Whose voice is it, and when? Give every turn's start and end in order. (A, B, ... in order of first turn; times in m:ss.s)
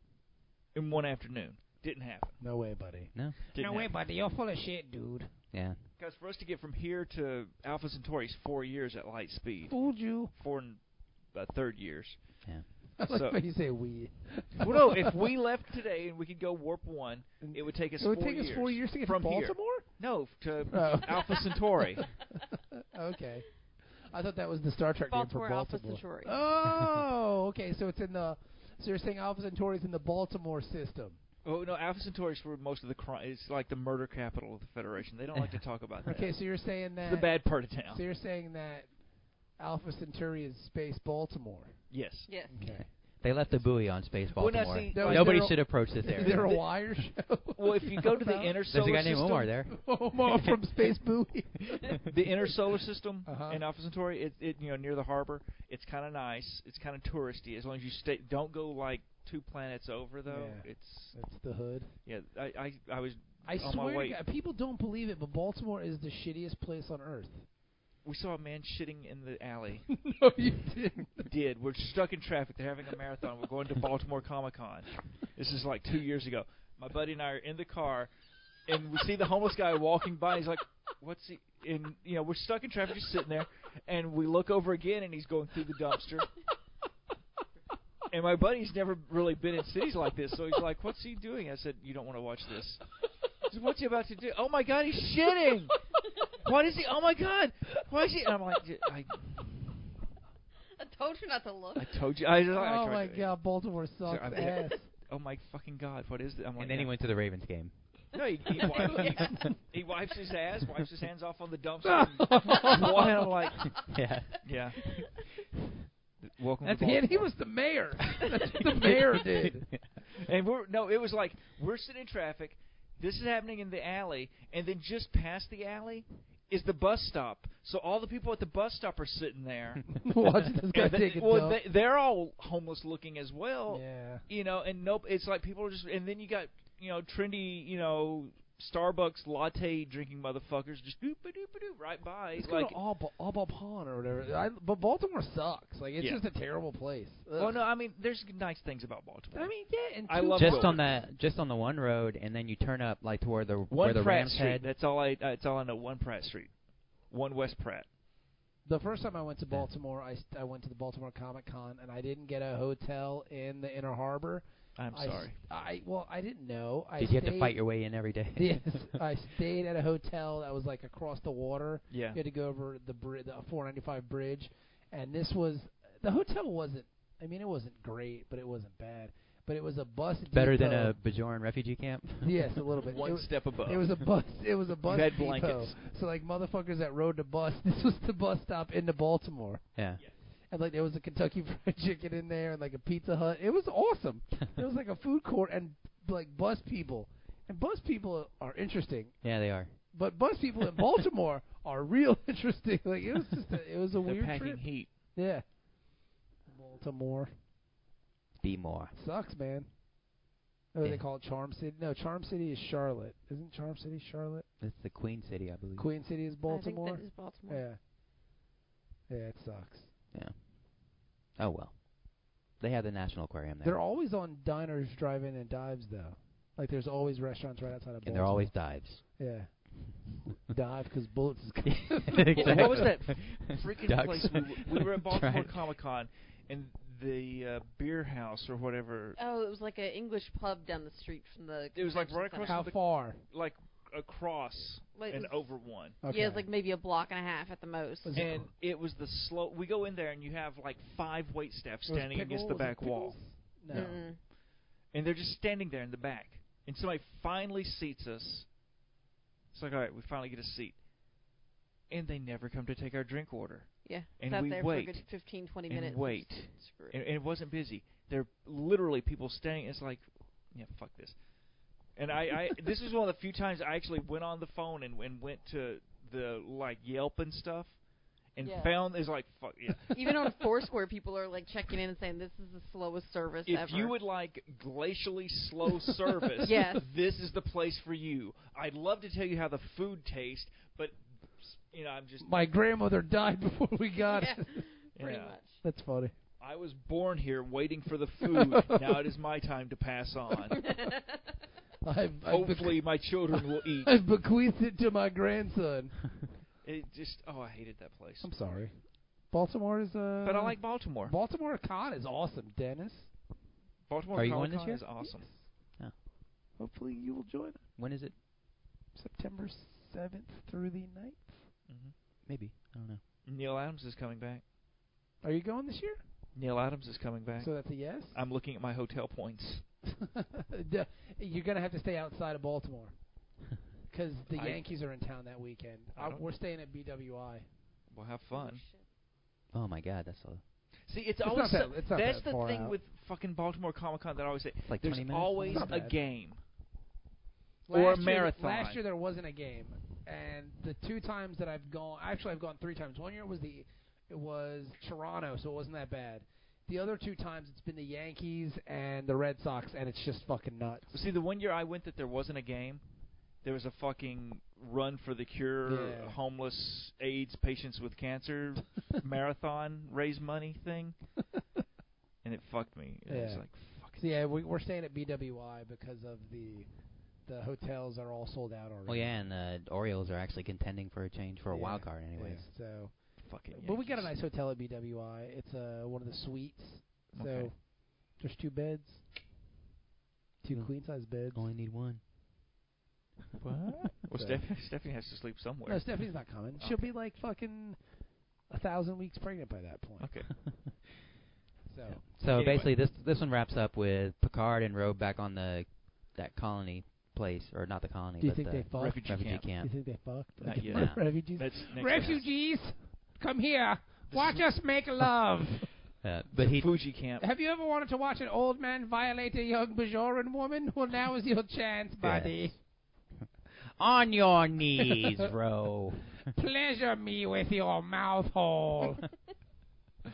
0:00.7-0:02.4 A
0:02.4-0:05.4 B
0:03.5-0:03.9 A
0:05.5-0:05.8 C
0:06.0-0:13.4 A
0:09.7-0:10.3 B
0:13.0-0:15.2 B
0:14.6-0:22.2 A
0:17.4-0:20.0 B
0:20.7-0:21.5 B
0:22.3-0:31.2 B
0:25.1-0:26.4 D
0:31.4-0:38.0 A
0:35.4-0:35.6 C
0:36.1-0:39.0 B
0:39.6-0:41.9 B
0:41.9-0:42.3 A
0:42.3-0:42.5 D
0:42.5-0:42.9 B
0:42.6-0:46.6 C
0:44.3-0:46.7 A
0:44.9-0:48.6 B
0:47.6-0:49.5 A
0:48.7-0:50.9 C
0:49.7-0:52.2 B
0:52.1-1:01.2 A
0:53.2-0:53.6 B
1:00.3-1:01.9 B
1:02.0-1:04.2 A
1:03.4-1:07.4 B
1:08.0-1:10.0 A
1:09.9-1:11.3 B
1:11.2-1:18.1 A
1:18.7-1:26.3 A
1:28.1-1:32.9 A
1:33.5-1:35.9 A
1:36.4-1:39.8 A
1:40.8-1:42.0 D
1:41.8-1:43.4 A
1:42.5-1:44.9 B
1:44.0-1:46.9 A
1:46.6-1:49.2 C
1:48.1-1:53.9 A
1:48.8-1:49.5 D
1:51.8-1:53.3 B
1:53.8-1:55.0 C
1:54.4-1:54.8 A
1:56.2-1:57.3 A
1:56.7-1:59.7 B
1:58.8-2:00.0 C
2:00.2-2:22.8 A
2:09.9-2:11.6 B
2:13.7-2:14.3 B
2:22.4-2:27.6 B
2:26.0-2:26.2 A
2:27.4-2:30.9 A
2:29.3-2:30.8 B
2:30.4-2:34.7 C
2:33.7-2:37.9 A
2:38.6-3:01.0 B
2:44.8-2:45.4 A
2:47.0-2:49.0 C
2:51.9-2:52.2 A
3:00.3-3:02.6 C
3:02.2-3:09.6 B
3:02.8-3:04.1 A
3:04.9-3:05.8 A
3:09.8-3:10.0 C
3:10.5-3:19.2 B
3:19.2-3:19.7 C
3:19.9-3:25.6 B
3:24.0-3:24.9 A
3:26.5-3:27.3 B
3:28.4-3:28.9 C
3:28.9-3:29.9 B
3:30.7-3:34.5 B
3:34.6-3:35.9 C
3:35.8-3:37.8 B
3:36.5-3:37.6 D
3:39.1-3:39.9 B
3:40.1-3:43.8 C
3:43.6-3:52.9 B
3:48.0-3:49.0 C
3:51.7-3:55.6 C
3:52.4-3:59.2 A
3:59.2-4:02.7 D
4:01.7-4:06.0 A
4:02.5-4:03.2 B
4:05.0-4:08.3 D
4:06.0-4:06.5 B
4:08.0-4:08.5 B
4:08.2-4:14.3 A
4:11.9-4:14.0 B
4:13.7-4:14.2 D
4:14.9-4:18.5 A
4:19.5-4:20.8 A
4:21.9-4:31.2 A
4:23.8-4:27.0 D
4:31.9-4:37.8 A
4:38.3-4:40.7 A
4:38.4-4:38.8 D
4:39.9-4:44.0 D
4:43.5-4:52.3 A
4:46.4-4:46.8 D
4:52.2-4:54.7 B
4:54.1-4:55.6 D
4:55.0-4:55.4 A
4:55.6-4:56.1 B
4:56.4-5:00.7 A
4:58.3-4:59.0 B
5:00.5-5:01.2 D
5:01.8-5:06.1 B
5:02.3-5:04.0 A
5:06.6-5:08.3 A
5:08.2-5:13.1 B
5:10.2-5:11.1 A
5:13.9-5:15.4 A
5:14.1-5:14.8 C
5:15.0-5:15.3 B
5:16.6-5:17.7 B
5:17.8-5:18.2 C
5:18.9-5:21.5 B
5:21.7-5:21.9 A
5:22.3-5:23.0 C
5:23.2-5:24.4 A
5:25.2-5:26.0 B
5:26.4-5:29.7 A
5:27.4-5:28.2 B
5:29.9-5:33.0 B
5:33.9-5:37.4 B
5:34.3-5:34.6 A
5:36.0-5:36.2 A
5:37.9-5:38.6 A
5:38.3-5:38.8 D
5:39.5-5:40.4 C
5:40.9-5:46.4 A
5:41.2-5:42.8 B
5:44.7-5:45.7 C
5:45.4-5:46.0 B
5:47.7-6:01.0 B
5:47.7-5:48.8 A
6:00.9-6:02.8 A
6:03.4-6:11.0 A
6:05.6-6:06.2 B
6:12.2-6:14.1 A
6:13.1-6:16.7 B
6:17.2-6:19.2 B
6:18.9-6:22.5 C
6:21.5-6:29.0 B
6:23.2-6:24.1 A
6:27.1-6:27.5 A
6:30.4-6:31.5 B
6:30.5-6:32.0 C
6:33.4-6:36.9 A
6:34.1-6:34.4 B
6:35.7-6:37.9 B
6:38.4-6:40.1 B
6:40.0-6:40.3 A
6:40.4-6:40.7 C
6:41.7-6:42.0 B
6:42.1-6:42.7 A
6:42.2-6:49.8 C
6:48.2-6:55.7 B
6:48.8-6:49.5 A
6:50.4-6:52.3 A
6:50.6-6:51.0 C
6:54.1-6:54.4 A
6:56.0-6:56.7 C
6:56.4-6:57.2 A
6:57.2-7:02.6 B
7:02.0-7:02.6 C
7:03.8-7:06.2 C
7:06.3-7:09.0 B